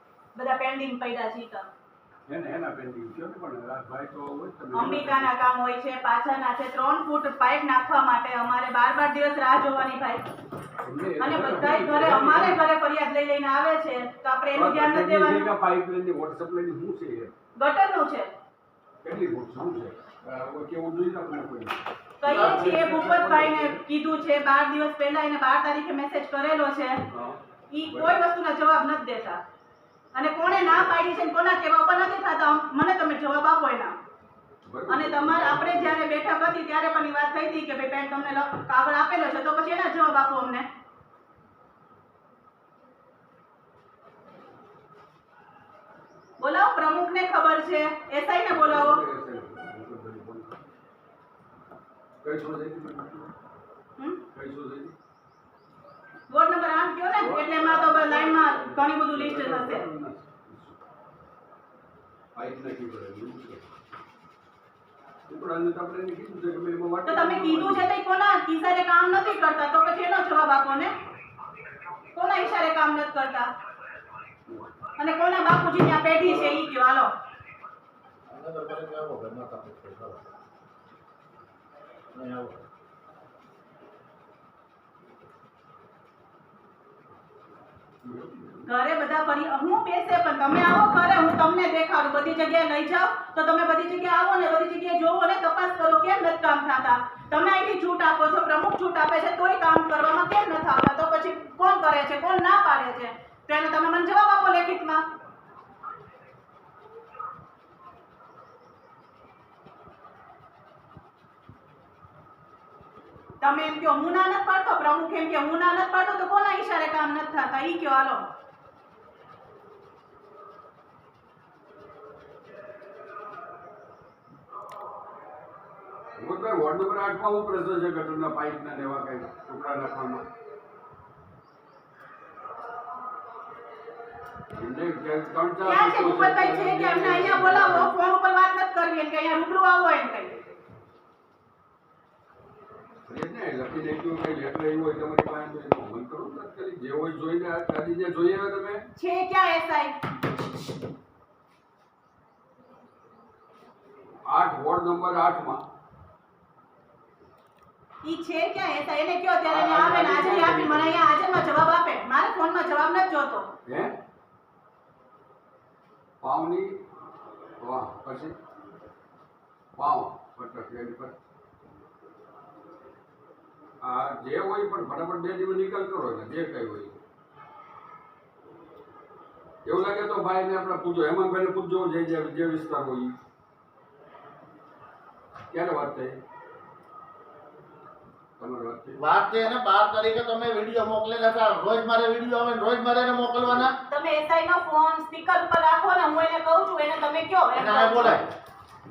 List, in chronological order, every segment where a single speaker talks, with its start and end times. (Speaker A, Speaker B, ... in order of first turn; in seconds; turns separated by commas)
Speaker A: 0.3-1.7, Speaker B: 2.3-5.3, Speaker A: 4.7-10.2, Speaker B: 10.8-12.6, Speaker A: 11.2-15.5, Speaker B: 14.5-17.3, Speaker A: 17.6-18.3, Speaker B: 19.0-23.8, Speaker A: 22.2-27.0, Speaker C: 22.3-22.6, Speaker B: 27.1-28.2, Speaker A: 27.7-29.4, Speaker A: 30.1-33.9, Speaker B: 34.6-36.0, Speaker A: 34.9-40.7, Speaker A: 46.4-49.0, Speaker B: 48.5-50.6, Speaker B: 52.2-53.3, Speaker B: 54.3-54.9, Speaker A: 56.3-59.9, Speaker B: 57.1-60.8, Speaker B: 62.4-63.7, Speaker B: 65.3-67.9, Speaker A: 67.0-70.9, Speaker A: 72.1-73.5, Speaker B: 74.5-74.7, Speaker A: 75.0-77.1, Speaker B: 76.3-76.6, Speaker C: 78.3-80.2, Speaker C: 82.1-82.6, Speaker B: 88.0-88.7, Speaker A: 88.7-105.0, Speaker A: 113.4-118.2, Speaker B: 126.2-130.2, Speaker B: 134.5-137.9, Speaker A: 135.6-140.4, Speaker B: 143.1-148.9, Speaker A: 149.0-149.9, Speaker B: 154.3-155.6, Speaker A: 158.0-163.5, Speaker B: 159.5-161.1, Speaker B: 163.7-163.9, Speaker B: 166.2-166.8, Speaker B: 167.6-168.4, Speaker B: 169.8-171.2, Speaker B: 173.8-177.0, Speaker B: 179.7-183.1, Speaker B: 185.5-186.2, Speaker B: 188.4-189.0, Speaker C: 189.0-193.8, Speaker B: 193.4-193.7, Speaker A: 193.9-198.2, Speaker C: 197.5-198.3